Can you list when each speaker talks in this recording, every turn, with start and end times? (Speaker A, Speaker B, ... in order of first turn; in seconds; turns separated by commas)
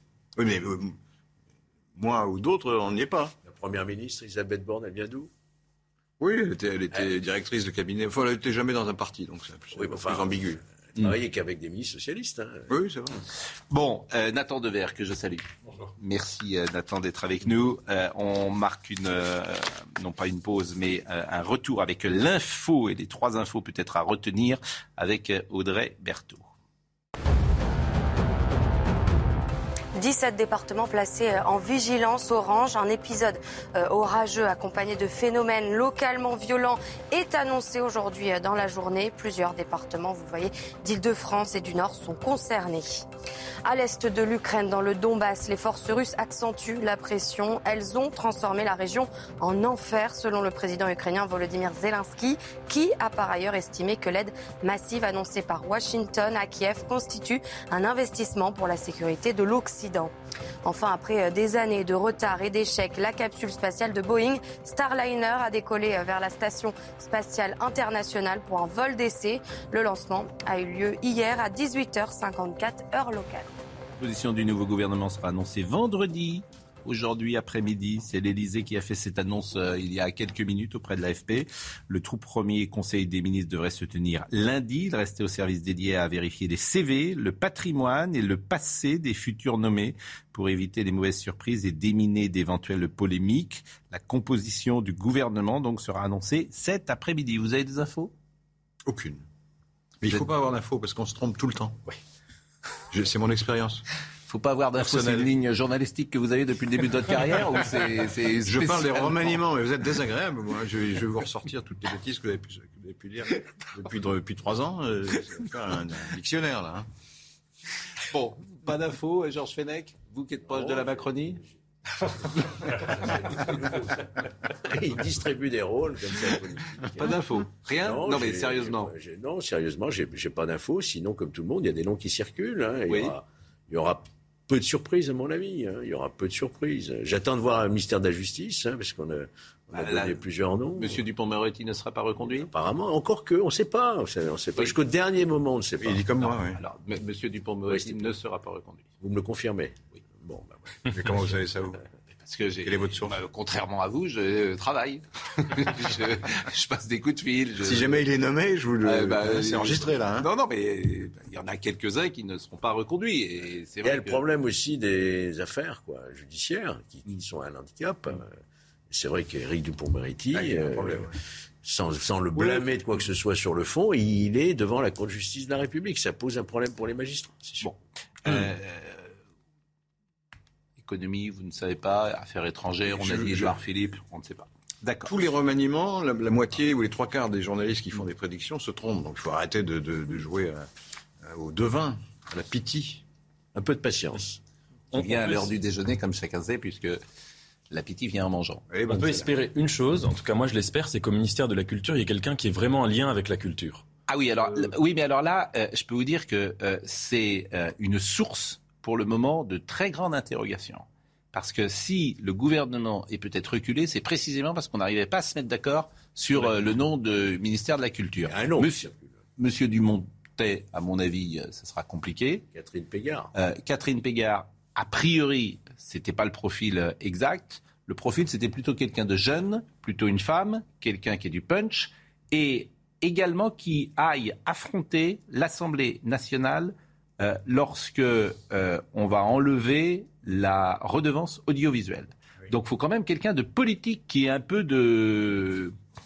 Speaker A: 0.3-0.9, Speaker A: 1.9-3.3, Speaker B: 3.4-5.3, Speaker A: 6.2-10.6, Speaker B: 9.7-12.7, Speaker A: 12.7-13.2, Speaker C: 13.7-26.5, Speaker D: 30.0-43.0, Speaker D: 43.6-60.1, Speaker D: 60.6-73.5, Speaker C: 74.0-98.1, Speaker A: 98.8-99.2, Speaker A: 100.0-101.8, Speaker A: 102.9-103.8, Speaker C: 104.3-109.4, Speaker A: 104.8-105.3, Speaker A: 108.4-116.8, Speaker C: 118.1-121.4, Speaker B: 120.5-121.5, Speaker B: 122.7-124.0, Speaker B: 124.7-127.1, Speaker C: 127.0-128.9, Speaker B: 127.7-141.0, Speaker C: 132.9-133.1, Speaker C: 139.7-140.2, Speaker C: 140.7-142.5, Speaker B: 142.4-146.1, Speaker A: 145.8-146.6, Speaker C: 146.2-148.9, Speaker B: 147.7-148.2, Speaker B: 149.0-150.6, Speaker A: 150.9-151.8, Speaker C: 152.2-158.0, Speaker A: 152.6-153.2, Speaker A: 157.6-160.3, Speaker C: 158.8-164.2, Speaker B: 163.8-168.3, Speaker B: 168.9-171.1, Speaker A: 170.3-171.1, Speaker B: 171.6-177.7, Speaker C: 177.6-179.1, Speaker C: 180.8-185.2, Speaker A: 182.9-183.5, Speaker A: 185.0-190.7, Speaker A: 191.2-193.0, Speaker B: 193.5-194.4, Speaker C: 194.9-197.0, Speaker E: 194.9-195.5, Speaker C: 197.7-198.8, Speaker A: 198.7-199.3, Speaker E: 198.9-203.8, Speaker C: 204.1-218.8, Speaker B: 218.2-219.2, Speaker C: 219.4-222.4, Speaker B: 222.5-223.3, Speaker C: 223.3-245.7